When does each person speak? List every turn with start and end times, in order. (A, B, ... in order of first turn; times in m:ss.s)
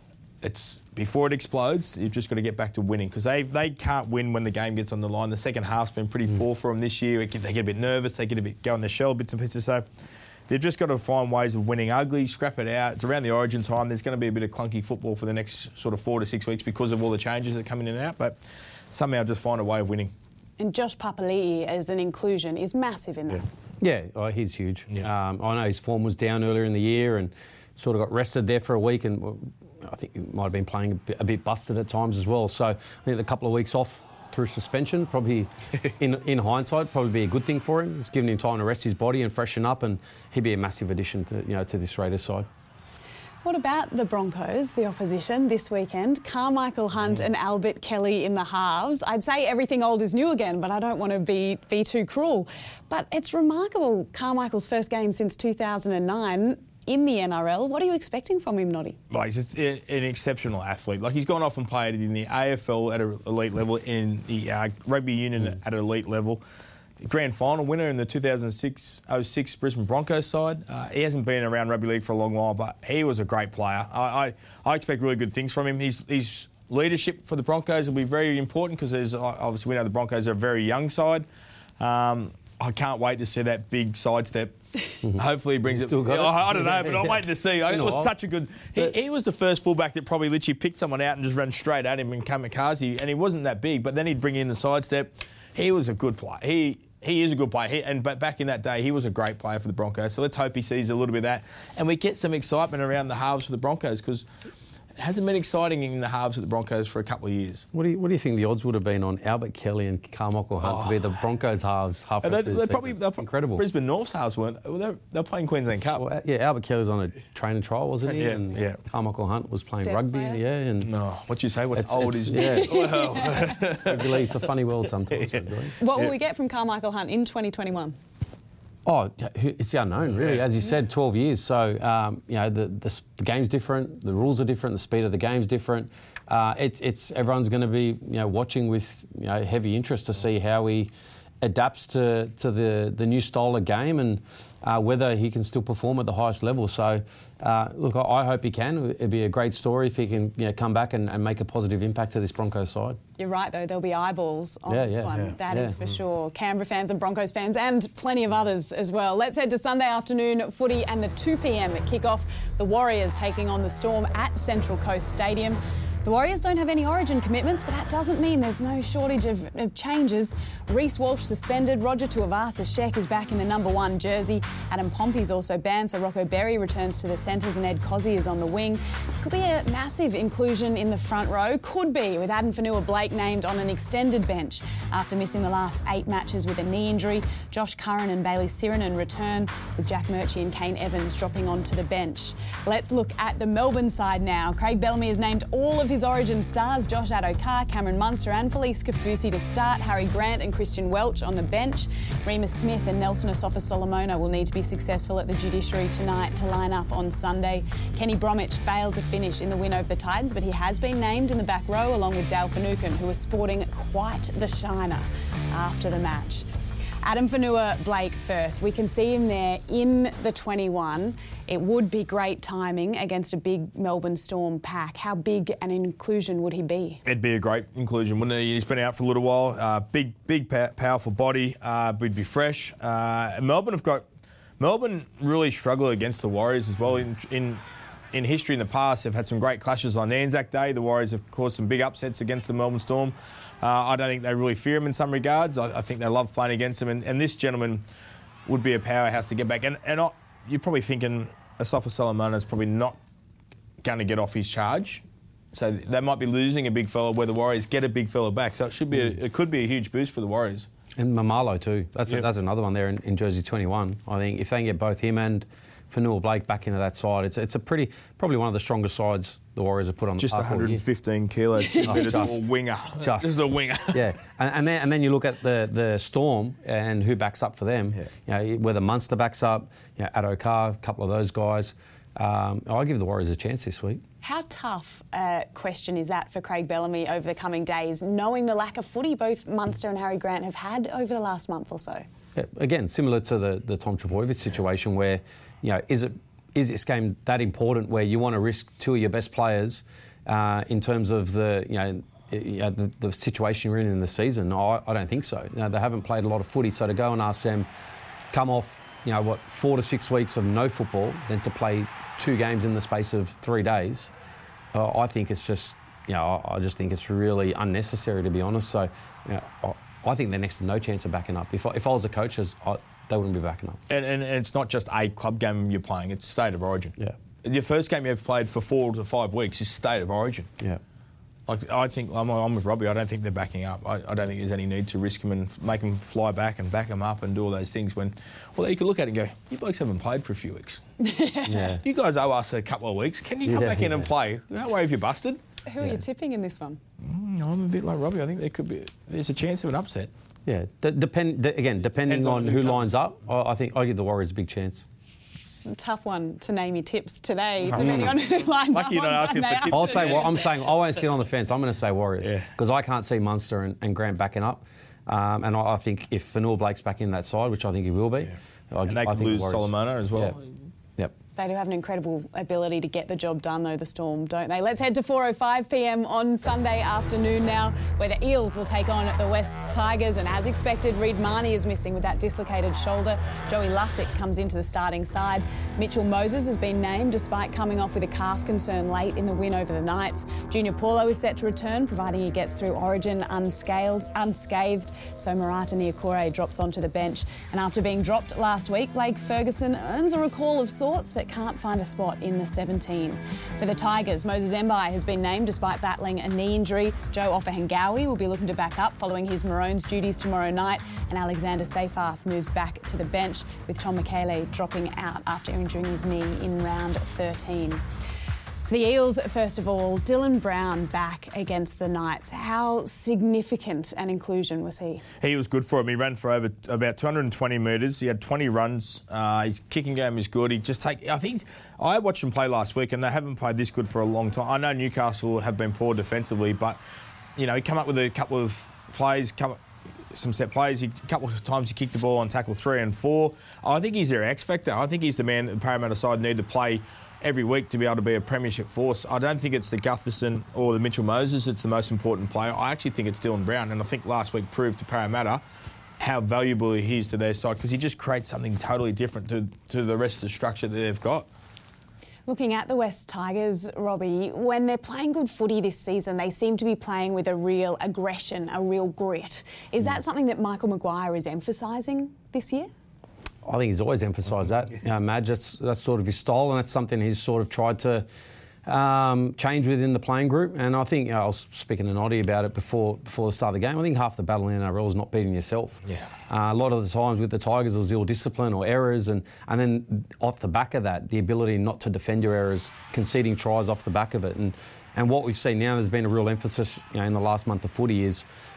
0:00.4-0:09.8 A
0:10.5-0:18.4 A
0:18.9-0:20.1 A
0:20.6-0:23.4 B
0:23.8-0:42.5 C
0:43.4-0:59.0 B
0:59.1-1:06.4 A
1:07.0-1:21.2 A
1:21.8-1:44.2 A
1:25.0-1:28.1 C
1:45.0-1:47.7 A
1:47.7-1:53.6 C
1:50.6-1:51.0 A
1:52.2-1:56.0 A
1:56.0-2:00.9 C
1:58.1-1:58.8 A
1:59.8-2:00.4 B
2:00.8-2:04.2 A
2:01.8-2:05.8 C
2:02.3-2:03.6 B
2:05.1-2:05.4 A
2:05.8-2:08.0 B
2:08.8-2:33.0 C
2:33.2-3:36.5 B
2:34.7-2:35.8 C
3:37.0-3:47.0 B
3:47.0-3:54.0 A
3:54.6-3:57.6 A
3:58.1-4:07.8 A
4:08.4-4:13.0 A
4:13.8-4:20.7 A
4:21.0-4:30.8 C
4:30.2-4:34.1 A
4:31.8-4:32.5 C
4:33.0-4:33.4 C
4:33.9-4:44.0 C
4:44.2-4:52.0 B
4:52.3-5:07.7 C
5:08.3-5:14.1 C
5:14.7-5:23.8 C
5:23.9-5:30.5 A
5:31.5-5:40.8 A
5:41.0-5:41.8 B
5:41.5-5:41.8 C
5:41.8-5:45.4 A
5:43.4-5:44.1 C
5:45.6-5:46.8 B
5:47.0-5:50.1 A
5:50.4-5:54.8 C
5:52.0-5:52.8 A
5:55.6-6:00.3 B
5:57.7-5:58.1 C
5:57.8-6:00.5 A
5:59.7-6:10.4 C
6:02.2-6:02.5 A
6:08.9-6:10.5 A
6:11.4-6:57.8 B
6:58.7-7:05.0 B
7:05.2-7:16.8 A
7:17.4-7:19.6 A
7:20.1-7:35.4 A
7:36.0-7:41.3 A
7:42.3-7:52.7 B
7:53.4-7:58.0 C
7:58.6-8:18.2 C